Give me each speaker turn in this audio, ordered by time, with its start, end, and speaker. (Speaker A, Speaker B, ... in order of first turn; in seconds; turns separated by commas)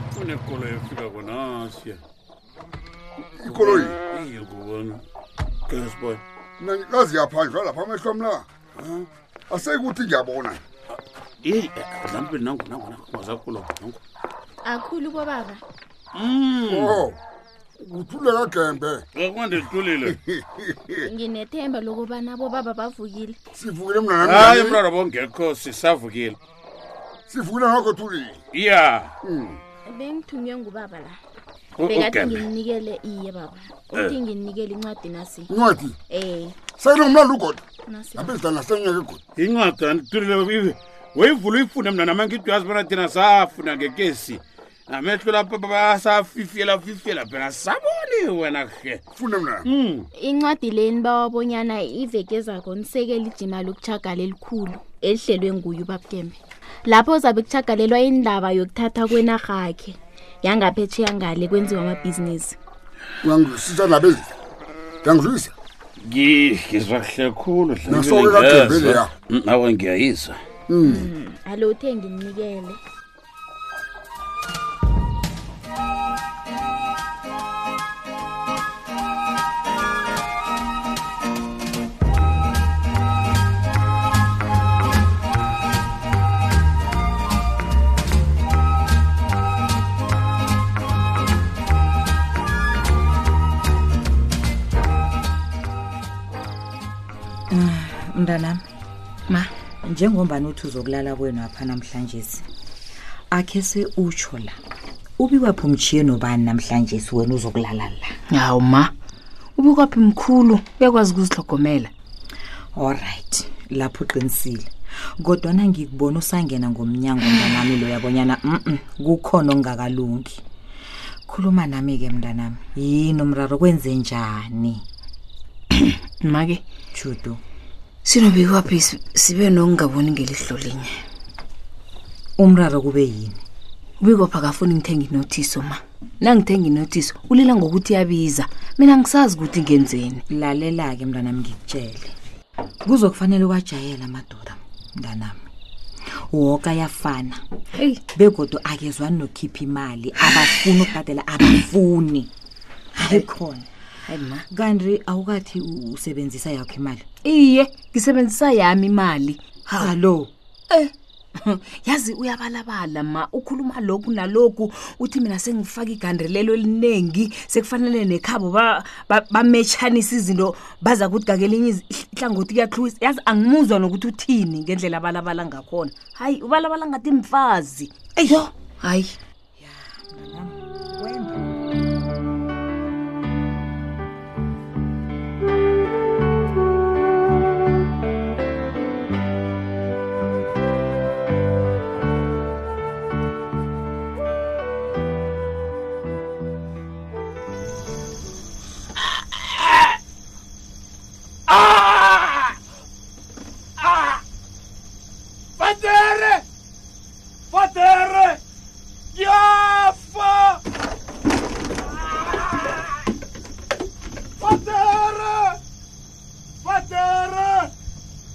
Speaker A: 0.1-2.0, Speaker B: 3.4-4.0, Speaker A: 3.5-5.0, Speaker A: 5.7-6.2, Speaker B: 6.6-10.6, Speaker A: 11.4-14.0, Speaker C: 14.6-15.6, Speaker A: 16.1-17.0, Speaker B: 16.7-17.2, Speaker B: 17.8-19.1, Speaker A: 19.1-20.2, Speaker B: 20.1-21.1, Speaker C: 21.1-23.4, Speaker B: 23.6-24.8, Speaker A: 24.2-26.4, Speaker B: 27.3-28.4, Speaker A: 28.5-29.1, Speaker B: 29.2-29.6, Speaker C: 29.9-31.2, Speaker A: 31.8-32.4, Speaker C: 31.9-35.5, Speaker B: 35.5-36.0, Speaker C: 36.1-36.5, Speaker B: 36.8-37.6, Speaker C: 37.9-38.4, Speaker B: 38.2-39.2, Speaker A: 39.4-49.0, Speaker B: 49.2-49.7, Speaker A: 49.6-50.1, Speaker C: 50.1-62.6, Speaker B: 63.2-64.3, Speaker B: 65.0-65.5, Speaker A: 66.0-70.4, Speaker B: 67.9-69.1, Speaker B: 70.7-71.1, Speaker C: 70.8-72.8, Speaker D: 97.5-98.6, Speaker D: 99.9-102.4, Speaker D: 103.3-104.6, Speaker D: 105.2-108.1, Speaker E: 108.3-108.9, Speaker E: 109.6-111.9, Speaker D: 112.8-120.4, Speaker D: 121.3-124.8, Speaker E: 126.2-126.6, Speaker D: 126.9-127.4, Speaker E: 128.1-131.0, Speaker D: 132.4-133.4, Speaker E: 134.0-140.2, Speaker D: 140.3-142.1, Speaker D: 142.8-145.5, Speaker D: 146.3-147.4, Speaker D: 148.1-152.3, Speaker D: 153.0-153.7, Speaker E: 154.1-154.4, Speaker D: 154.5-157.1, Speaker E: 157.2-159.9, Speaker D: 159.8-160.3, Speaker E: 160.7-179.2, Speaker D: 179.6-181.5, Speaker A: 199.4-199.9, Speaker A: 201.5-202.6, Speaker A: 203.8-204.2, Speaker A: 205.6-206.4, Speaker A: 207.5-208.4, Speaker A: 209.2-210.6, Speaker A: 211.9-213.0, Speaker A: 214.4-215.6, Speaker A: 216.6-217.7